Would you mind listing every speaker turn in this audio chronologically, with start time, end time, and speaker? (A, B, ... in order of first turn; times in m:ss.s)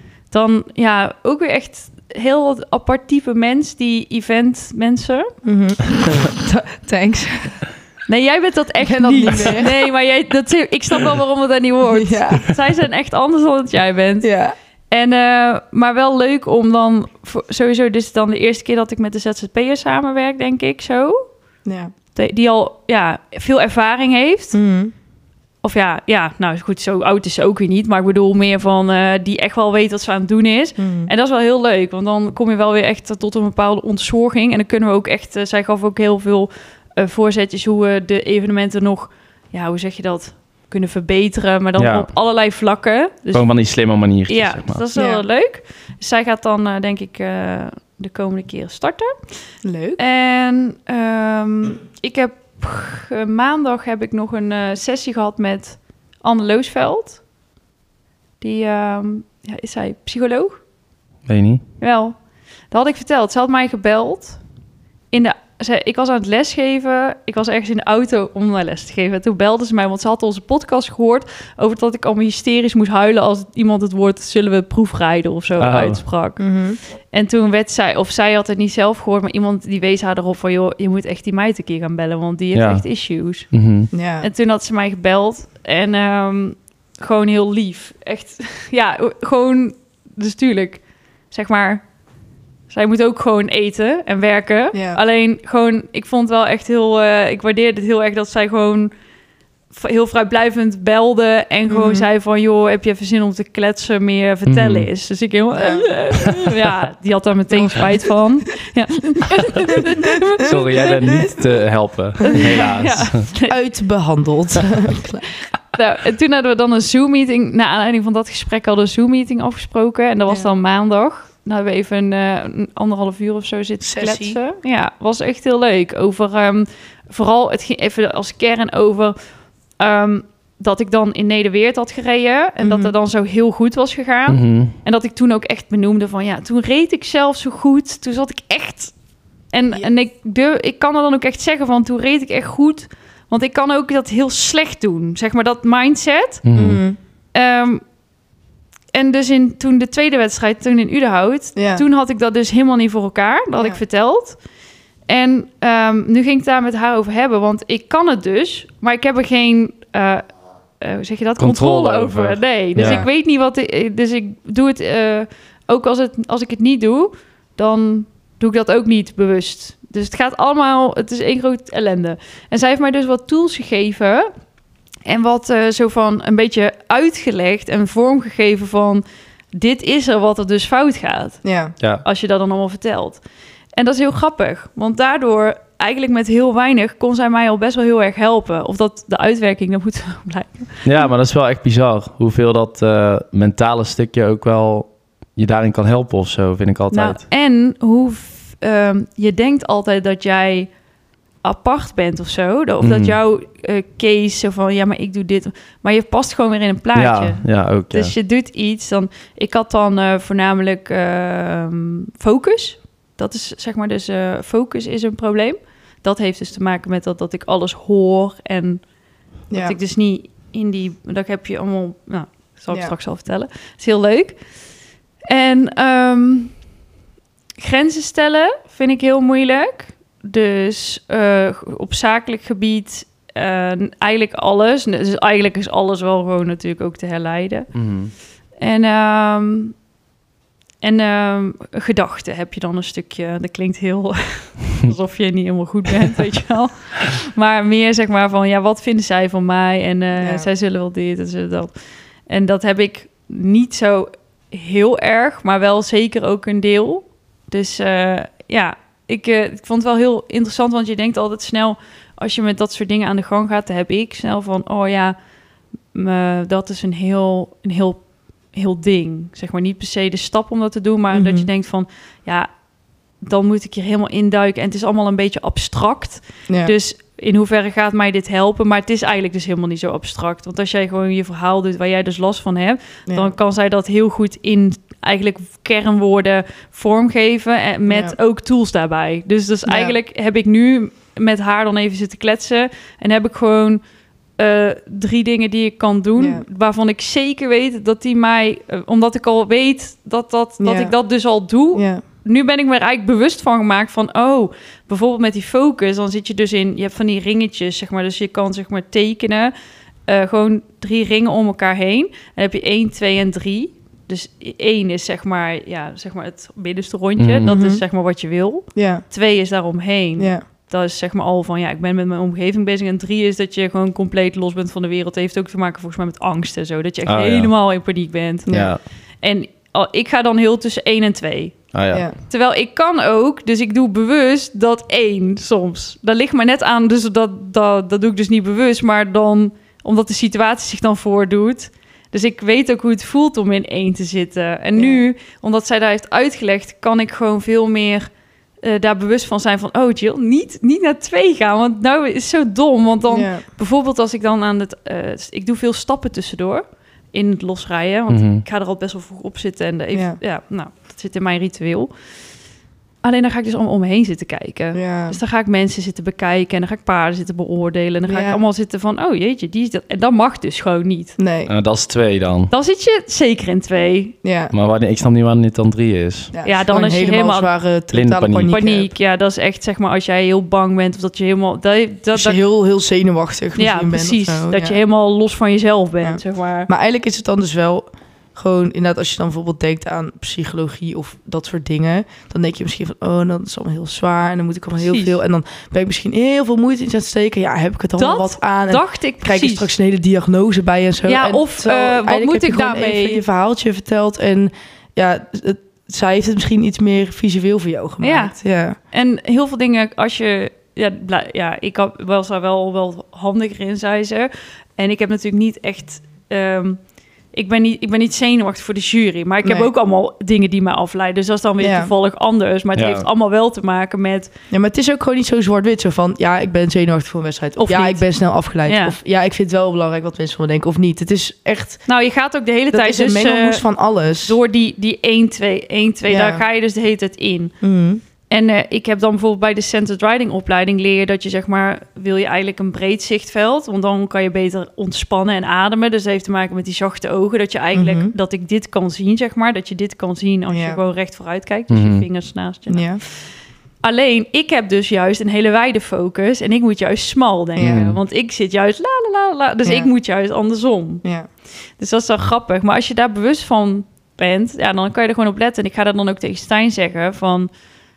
0:00.3-0:05.3 A
0:05.4-0:07.6 B
0:08.1-0:14.3 A
0:08.8-0:09.8 B
0:11.9-0:12.5 B
0:14.2-0:14.6 B
0:14.9-0:21.2 A
0:21.6-0:21.9 B
0:22.2-0:24.6 A
0:24.5-0:24.9 B
0:25.6-0:43.5 A
0:30.8-0:31.1 B
0:41.8-0:42.1 C
0:43.3-0:44.8 C
0:44.3-0:49.2 A
0:45.0-0:45.2 B
0:49.6-0:50.0 B
0:50.0-0:57.2 A
0:58.4-1:00.6 A
1:01.3-1:01.6 C
1:01.8-1:02.2 A
1:02.7-1:04.4 A
1:05.1-1:16.5 A
1:15.6-1:16.0 C
1:16.4-1:16.8 B
1:17.1-1:23.5 A
1:22.6-1:22.9 C
1:23.5-1:23.9 C
1:23.9-1:24.3 B
1:24.2-1:31.8 A
1:32.7-1:38.9 A
1:34.7-1:35.0 B
1:39.7-1:51.2 A
1:41.7-1:42.1 B
1:44.5-1:44.9 C
1:45.6-1:46.0 B
1:50.4-1:53.3 C
1:51.0-1:51.5 B
1:52.2-1:53.6 A
1:52.2-1:52.7 B
1:53.5-1:55.2 B
1:55.7-2:09.2 A
2:03.8-2:04.4 B
2:09.8-2:18.9 A
2:12.6-2:12.9 B
2:14.3-2:14.7 C
2:19.5-2:26.4 A
2:26.4-2:26.8 C
2:26.6-2:27.0 B
2:27.3-2:27.8 A
2:28.9-2:34.4 A
2:31.6-2:31.8 B
2:35.1-2:40.2 A
2:40.8-2:54.3 A
2:41.4-2:43.0 C
2:42.8-2:43.1 B
2:55.0-3:01.4 A
3:01.4-3:01.7 B
3:02.0-3:03.2 A
3:03.8-3:10.9 A
3:10.8-3:17.2 C
3:16.9-3:20.7 A
3:21.4-3:38.8 A
3:22.8-3:23.2 C
3:27.0-3:28.1 C
3:39.5-3:39.8 B
3:39.5-3:44.4 A
3:45.3-3:46.5 A
3:47.6-3:57.8 A
3:57.7-3:58.1 C
3:58.6-3:59.8 A
4:00.8-4:25.2 A
4:10.2-4:10.5 B
4:25.9-4:32.5 A
4:31.1-4:31.5 B
4:33.2-4:53.8 A
4:36.5-4:36.7 B
4:43.1-4:43.4 B
4:47.9-4:48.2 B
4:49.7-4:50.0 B
4:54.4-5:09.5 A
4:56.2-4:56.4 B
5:00.6-5:01.0 B
5:01.7-5:02.0 B
5:10.1-5:28.7 A
5:17.2-5:17.5 C
5:17.5-5:17.8 B
5:18.8-5:19.0 B
5:20.2-5:20.4 B
5:27.1-5:27.5 C
5:28.5-5:28.7 B
5:28.5-5:28.8 C
5:29.2-5:31.7 A
5:31.7-5:32.1 C
5:32.2-5:48.1 A
5:44.8-5:45.0 B
5:48.6-6:01.9 A
5:53.1-5:53.4 B
5:58.1-5:58.4 C
5:59.9-6:00.2 B
6:03.0-6:11.2 A
6:04.7-6:05.2 B
6:08.1-6:08.4 B
6:11.2-6:11.5 B
6:11.5-6:12.5 C
6:12.5-6:14.2 A
6:14.2-6:14.5 B
6:14.5-6:16.3 C
6:16.3-6:18.9 B
6:16.4-6:17.5 A
6:17.9-6:18.5 C
6:18.5-6:22.4 A
6:22.1-6:24.8 B
6:23.6-6:26.7 A
6:26.0-6:48.8 B
6:34.8-6:35.2 A
6:38.0-6:39.7 A
6:41.1-6:43.2 A
6:48.0-6:48.4 A
6:48.9-6:56.8 A
6:57.3-7:04.3 A
6:59.4-6:59.7 B
7:01.6-7:01.9 B
7:02.8-7:03.1 C
7:04.5-7:11.8 B
7:07.6-7:08.0 A
7:08.7-7:09.0 A
7:11.9-7:13.6 A
7:12.7-7:14.4 B
7:14.2-7:17.6 A
7:16.1-7:16.4 B
7:17.6-7:18.0 B
7:18.3-7:33.2 A
7:27.7-7:28.1 B
7:30.5-7:30.8 B
7:31.7-7:32.1 C
7:32.7-7:33.0 B
7:33.8-7:41.0 A
7:37.6-7:37.9 B
7:37.6-7:38.0 C
7:39.6-7:39.9 B
7:41.8-7:47.5 A